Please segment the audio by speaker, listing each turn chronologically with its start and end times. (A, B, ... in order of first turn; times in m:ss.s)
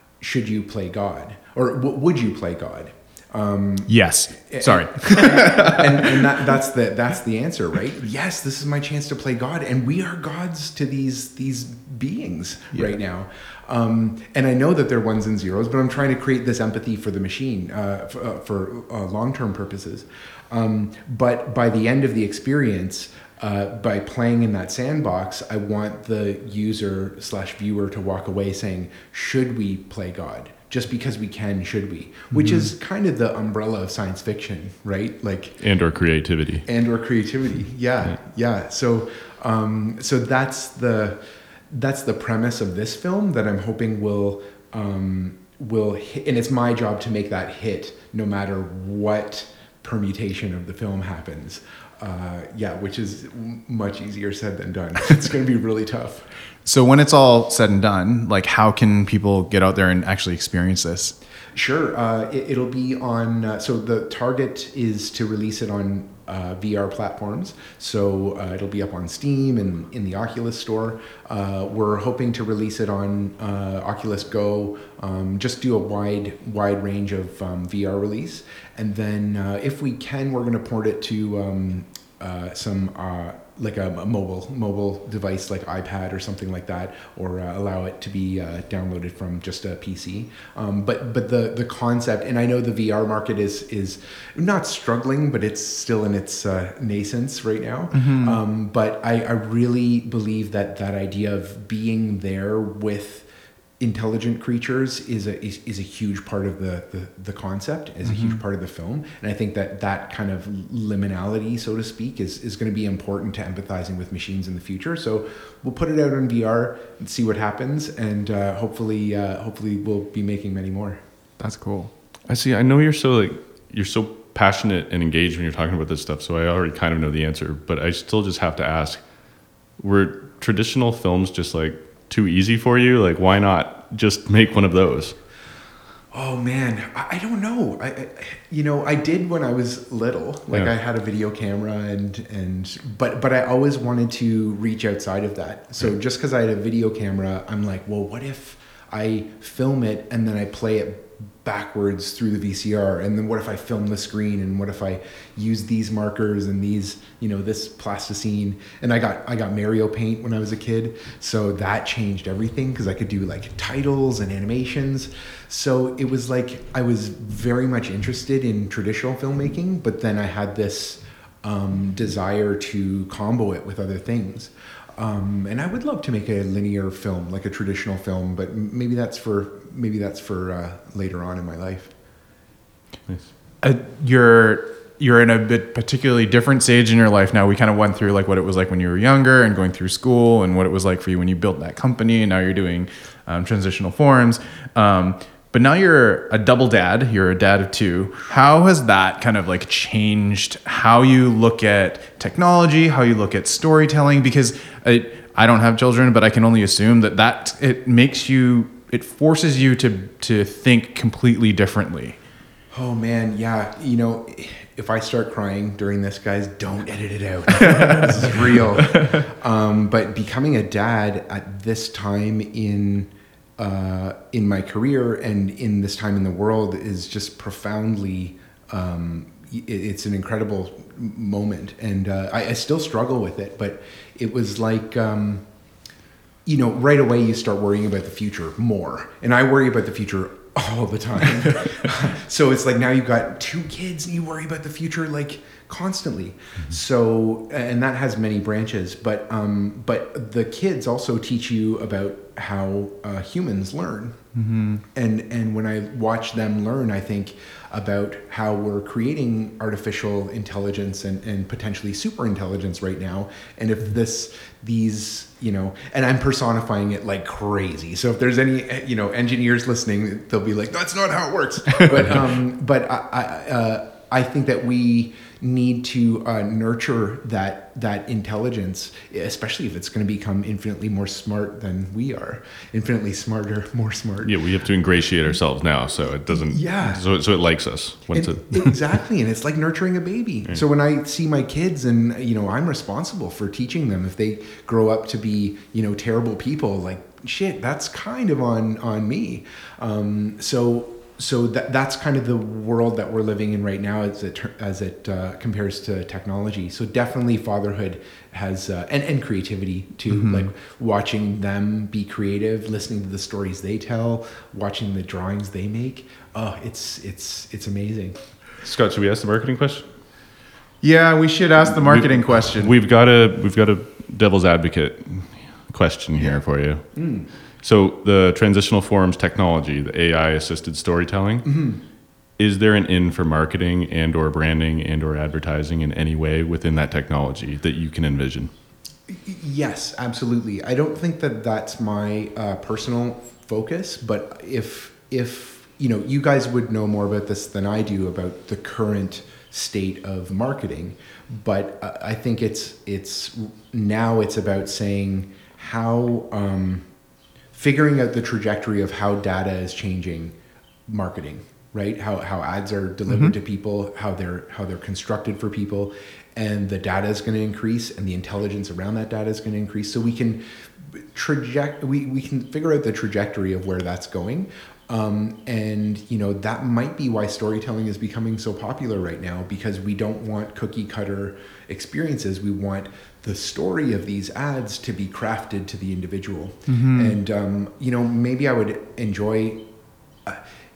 0:00.2-0:03.9 A
0:03.9-0:06.2 B
0:04.5-0:35.6 A
0:32.3-0:32.7 B
0:35.6-0:36.7 C
0:36.6-0:56.3 A
0:56.6-1:01.1 B
1:01.5-1:43.3 A
1:37.9-1:38.4 B
1:43.8-2:01.0 A
1:48.0-1:48.4 B
2:01.4-2:01.9 B
2:02.3-2:09.0 C
2:09.8-2:15.2 C
2:16.1-3:01.9 A
3:03.6-3:32.2 B
3:32.7-3:55.4 A
3:56.4-4:14.2 A
4:14.3-4:14.8 B
4:14.9-4:44.4 A
4:44.2-4:48.8 C
4:46.4-4:47.0 A
4:48.1-5:18.2 A
5:10.1-5:10.5 B
5:18.6-5:19.8 C
5:20.8-5:22.7 B
5:21.7-5:27.0 C
5:27.0-5:27.3 A
5:27.6-5:31.5 C
5:31.4-5:31.8 A
5:32.4-5:38.5 C
5:39.1-5:56.9 A
5:57.5-6:00.4 A
6:00.9-6:29.6 A
6:03.1-6:03.3 B
6:26.7-6:27.2 B